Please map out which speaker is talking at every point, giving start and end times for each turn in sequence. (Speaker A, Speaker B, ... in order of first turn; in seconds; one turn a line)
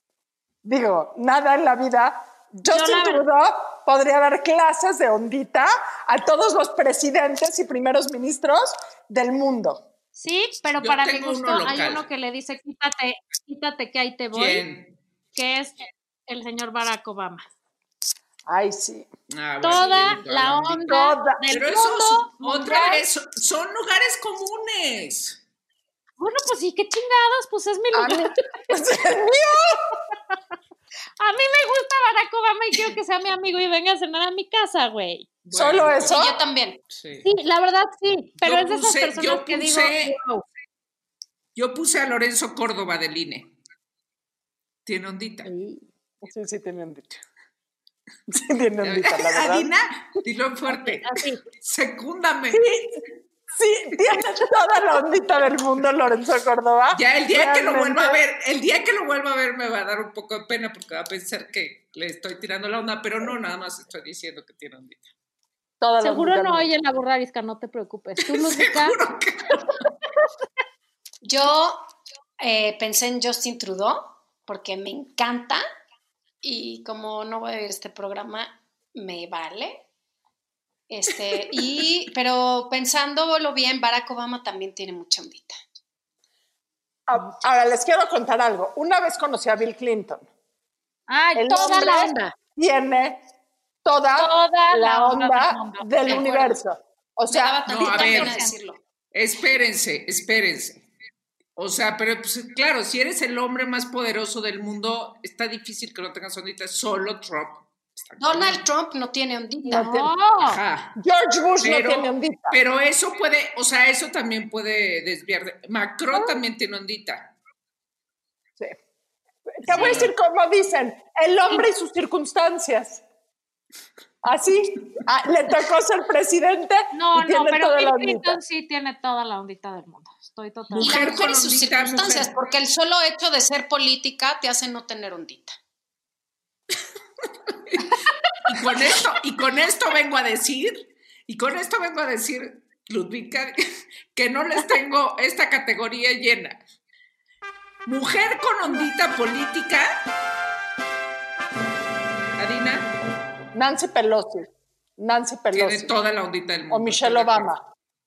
Speaker A: 0.6-9.8
Speaker B: 2.7-3.2
Speaker B: 10.1-14.6
Speaker C: 10.8-12.0
Speaker C: 14.3-15.0
Speaker B: 15.3-17.4
Speaker A: 18.5-19.1
Speaker C: 19.3-20.9
Speaker B: 19.6-23.0
Speaker A: 19.9-20.2
Speaker A: 20.7-21.4
Speaker C: 21.5-25.4
Speaker B: 26.2-28.3
Speaker A: 27.9-30.0
Speaker B: 31.2-35.3
Speaker C: 35.4-36.3
Speaker A: 35.5-36.3
Speaker D: 36.1-36.8
Speaker C: 36.9-37.3
Speaker B: 37.2-40.4
Speaker C: 38.4-40.1
Speaker C: 41.5-43.5
Speaker C: 44.9-45.5
Speaker B: 45.5-45.8
Speaker A: 46.2-47.2
Speaker A: 48.3-49.7
Speaker C: 48.8-52.6
Speaker B: 50.8-51.4
Speaker A: 52.5-53.0
Speaker A: 53.5-58.2
Speaker C: 56.9-65.0
Speaker A: 65.8-66.7
Speaker B: 66.0-69.0
Speaker C: 68.2-69.8
Speaker D: 71.2-71.8
Speaker D: 72.4-75.6
Speaker D: 76.4-79.8
Speaker D: 80.9-85.5
Speaker A: 87.1-90.2
Speaker B: 91.1-92.1
Speaker A: 91.3-92.0
Speaker D: 91.5-92.3
Speaker A: 92.5-93.2
Speaker A: 93.8-97.6
Speaker B: 94.2-96.3
Speaker D: 96.1-96.5
Speaker D: 97.3-98.8
Speaker C: 97.7-98.4
Speaker B: 97.9-98.5
Speaker C: 99.1-100.8
Speaker C: 101.5-108.6
Speaker D: 108.2-109.9
Speaker B: 109.7-110.6
Speaker A: 109.7-110.1
Speaker C: 110.4-111.0
Speaker A: 111.0-112.6
Speaker C: 111.6-117.3
Speaker A: 119.5-123.0
Speaker B: 119.6-120.1
Speaker C: 119.6-120.1
Speaker A: 124.2-128.4
Speaker B: 126.9-131.0
Speaker C: 130.7-132.3
Speaker D: 130.8-135.6
Speaker C: 137.5-137.9
Speaker C: 138.4-143.6
Speaker C: 144.1-146.6
Speaker C: 147.8-150.0
Speaker C: 152.4-152.9
Speaker A: 153.5-155.9
Speaker C: 155.5-157.5
Speaker A: 156.7-157.6